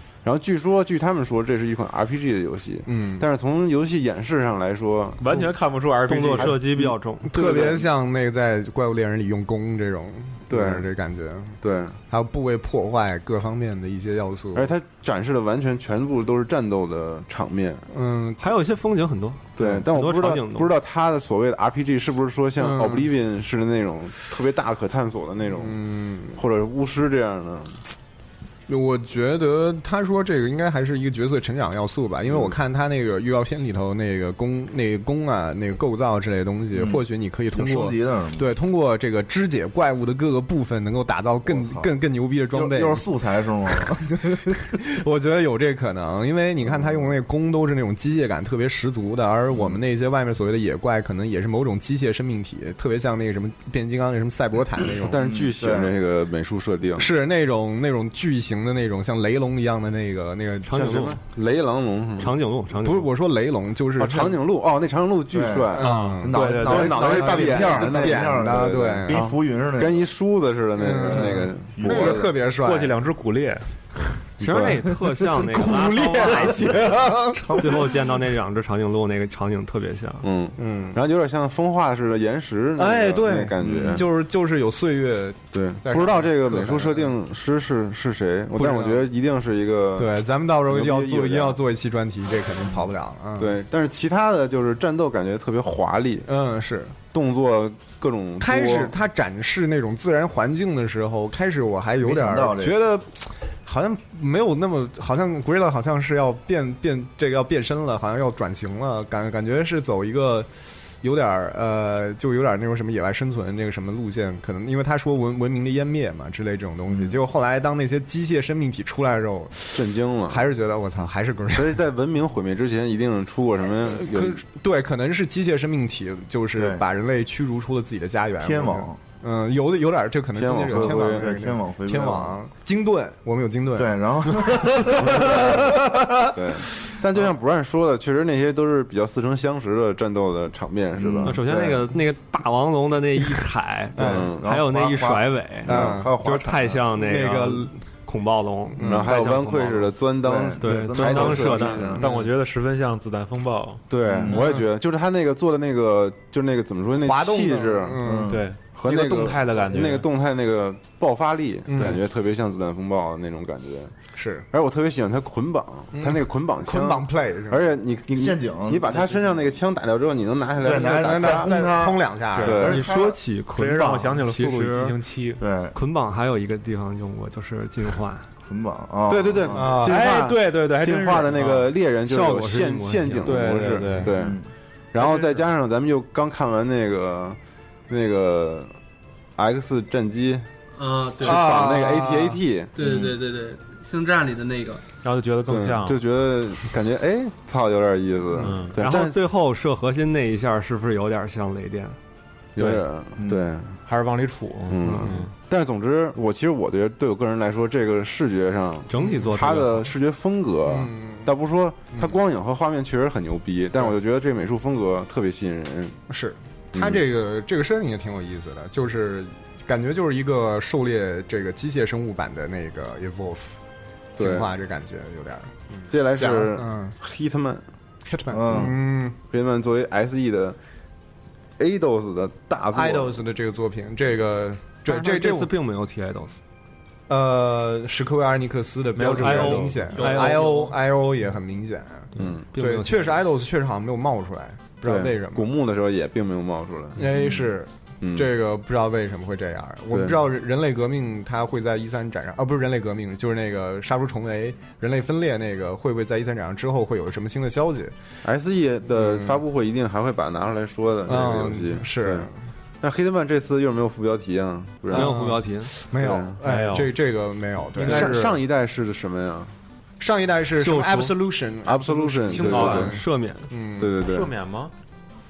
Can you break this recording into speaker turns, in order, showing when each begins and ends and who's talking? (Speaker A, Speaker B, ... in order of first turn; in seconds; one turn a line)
Speaker A: 0.2-5.5
Speaker B: 2.9-3.2
Speaker C: 5.2-6.6
Speaker D: 6.1-7.3
Speaker B: 7.3-11.6
Speaker A: 7.3-7.8
Speaker A: 10.5-10.9
Speaker A: 11.6-12.0
Speaker B: 12.1-14.7
Speaker A: 14.6-17.8
Speaker B: 17.9-18.4
Speaker D: 18.4-20.7
Speaker A: 19.6-25.8
Speaker B: 22.6-23.1
Speaker B: 25.6-26.4
Speaker A: 26.4-27.9
Speaker B: 28.7-43.0
Speaker E: 36.7-38.5
Speaker E: 41.5-41.9
Speaker E: 42.5-44.5
Speaker B: 43.8-55.3
Speaker E: 46.7-47.0
Speaker A: 55.0-57.1
Speaker E: 55.2-56.0
Speaker B: 57.0-60.9
Speaker D: 60.7-61.2
Speaker A: 60.8-62.3
Speaker D: 62.2-63.1
Speaker B: 62.8-64.4
Speaker A: 64.0-72.3
Speaker E: 65.3-70.1
Speaker B: 65.8-69.3
Speaker C: 66.3-66.9
Speaker B: 70.8-72.9
Speaker E: 71.1-72.2
Speaker C: 72.6-73.8
Speaker D: 74.4-76.8
Speaker A: 74.4-74.8
Speaker B: 75.4-77.7
Speaker E: 77.0-77.9
Speaker D: 77.6-80.3
Speaker A: 80.2-84.1
Speaker B: 80.6-81.0
Speaker B: 82.8-87.1
Speaker A: 85.5-91.6
Speaker B: 88.5-89.0
Speaker B: 90.0-93.5
Speaker A: 93.4-96.3
Speaker B: 96.3-97.0
Speaker A: 97.1-98.9
Speaker B: 98.4-121.8
Speaker E: 102.0-102.8
Speaker E: 116.9-117.1
Speaker A: 119.7-120.4
Speaker A: 121.5-124.4
Speaker B: 123.8-136.2
Speaker E: 126.6-126.8
Speaker E: 128.4-129.0
Speaker A: 130.4-131.4
Speaker E: 130.7-132.4
Speaker E: 133.8-135.8
Speaker A: 136.3-141.3
Speaker E: 141.0-141.9
Speaker D: 141.2-149.9
Speaker B: 144.0-144.3
Speaker E: 144.0-146.8
Speaker A: 144.0-144.4
Speaker B: 145.7-147.8
Speaker B: 148.7-149.1
Speaker A: 148.8-152.1
Speaker E: 150.2-152.0
Speaker D: 150.6-152.0
Speaker C: 152.0-153.8
Speaker A: 153.9-158.0
Speaker E: 154.1-154.5
Speaker B: 154.3-154.7
Speaker B: 157.0-158.4
Speaker E: 158.0-158.5
Speaker C: 158.3-160.1
Speaker A: 158.7-163.9
Speaker B: 161.7-162.0
Speaker B: 164.2-164.5
Speaker A: 164.5-171.7
Speaker B: 165.9-167.7
Speaker E: 168.1-169.5
Speaker E: 170.6-173.2
Speaker B: 170.6-172.7
Speaker C: 172.4-172.7
Speaker A: 172.4-172.9
Speaker D: 172.6-175.0
Speaker C: 173.6-175.4
Speaker E: 175.4-175.8
Speaker D: 175.7-178.3
Speaker E: 178.4-179.8
Speaker A: 179.1-184.4
Speaker B: 179.5-179.9
Speaker C: 179.8-181.7
Speaker D: 182.1-183.3
Speaker C: 183.2-184.1
Speaker E: 184.1-184.5
Speaker A: 184.9-187.4
Speaker C: 185.0-185.3
Speaker A: 187.9-188.7
Speaker A: 189.4-190.5
Speaker F: 190.7-191.4
Speaker B: 191.2-192.4
Speaker A: 191.2-192.8
Speaker F: 192.8-194.8
Speaker E: 192.8-193.1
Speaker C: 195.0-196.0
Speaker A: 195.5-199.2
Speaker C: 198.4-198.8
Speaker D: 198.8-202.0
Speaker A: 202.6-203.8
Speaker C: 202.6-202.8
Speaker E: 203.2-203.5
Speaker C: 203.8-205.3
Speaker A: 204.7-216.0
Speaker D: 208.9-209.9
Speaker B: 210.7-211.3
Speaker B: 216.1-223.6
Speaker A: 216.7-217.0
Speaker A: 224.2-224.5
Speaker B: 224.2-226.9
Speaker A: 225.9-227.6
Speaker B: 228.1-229.2
Speaker E: 228.3-228.8
Speaker A: 229.3-230.6
Speaker A: 231.6-233.2
Speaker B: 232.7-235.5
Speaker D: 234.8-236.4
Speaker B: 237.1-245.5
Speaker C: 239.0-240.5
Speaker D: 239.1-240.5
Speaker D: 242.2-243.3
Speaker A: 242.2-242.4
Speaker A: 244.8-247.0
Speaker B: 247.0-257.9
Speaker E: 247.1-247.4
Speaker A: 248.0-248.3
Speaker A: 249.9-250.2
Speaker A: 258.2-262.3
Speaker B: 258.9-259.4
Speaker B: 261.1-262.3
Speaker A: 262.8-265.4
Speaker D: 264.9-265.7
Speaker B: 264.9-268.1
Speaker A: 266.0-266.4
Speaker C: 266.4-266.9
Speaker C: 267.8-268.3
Speaker A: 267.8-269.5
Speaker B: 270.0-273.9
Speaker D: 270.6-271.1
Speaker A: 271.6-273.0
Speaker C: 272.3-272.9
Speaker D: 272.4-273.5
Speaker A: 273.8-274.3
Speaker C: 274.0-274.7